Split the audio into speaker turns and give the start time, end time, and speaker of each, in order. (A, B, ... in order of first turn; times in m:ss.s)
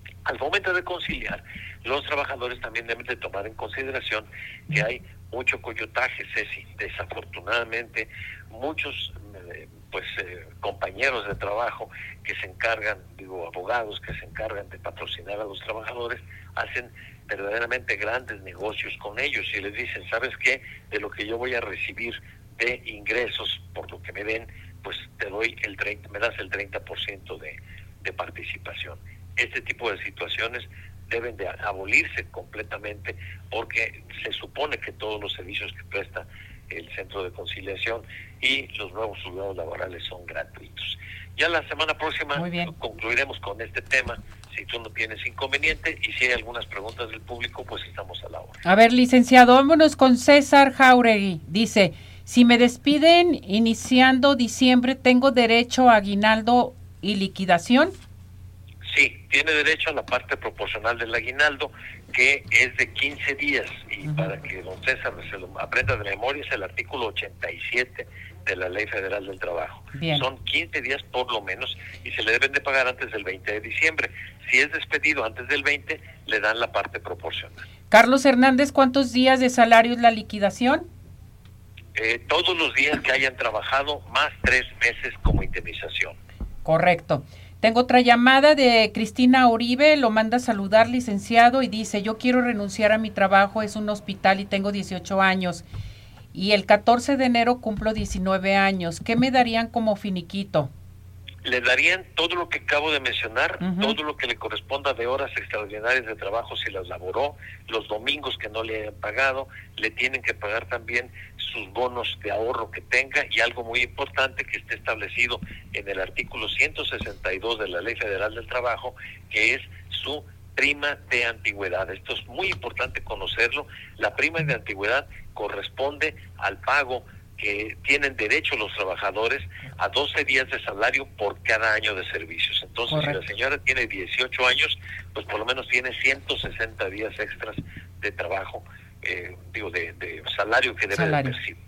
0:00.3-0:48.6 A
0:42.4-0:42.7 B
0:48.6-0:58.0 B
0:58.8-1:17.6 A
1:10.0-1:10.3 B
1:17.9-1:20.9 B
1:22.0-1:26.2 A
1:26.6-1:35.6 B
1:36.3-1:40.7 B
1:41.4-2:21.6 A
1:43.6-1:44.0 B
2:12.9-2:13.2 B
2:20.9-2:21.4 B